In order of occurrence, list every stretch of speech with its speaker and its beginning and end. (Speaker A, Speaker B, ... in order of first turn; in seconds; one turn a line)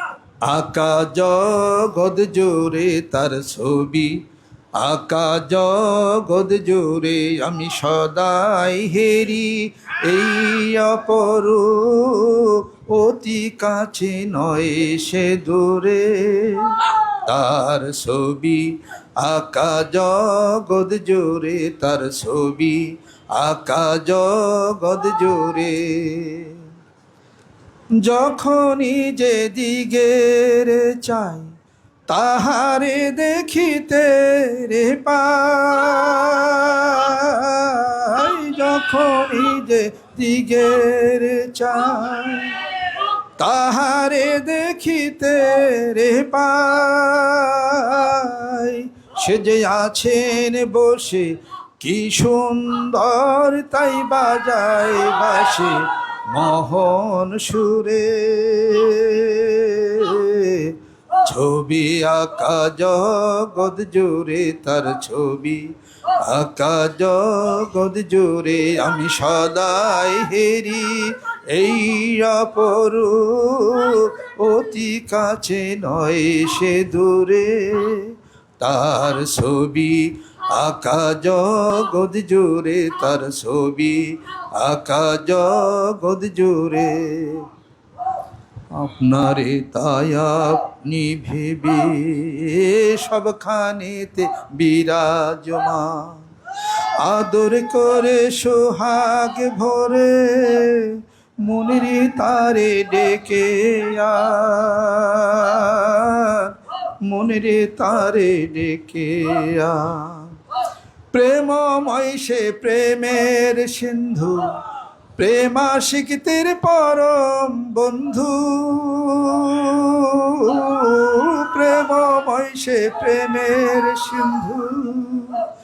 Speaker A: 0.5-4.2
Speaker A: 4.8-26.6
Speaker A: 28.0-31.5
Speaker A: 32.1-87.5
Speaker A: 88.7-96.2
Speaker A: 97.0-106.5
Speaker A: 107.1-110.3
Speaker A: 111.1-114.4
Speaker A: 115.2-125.5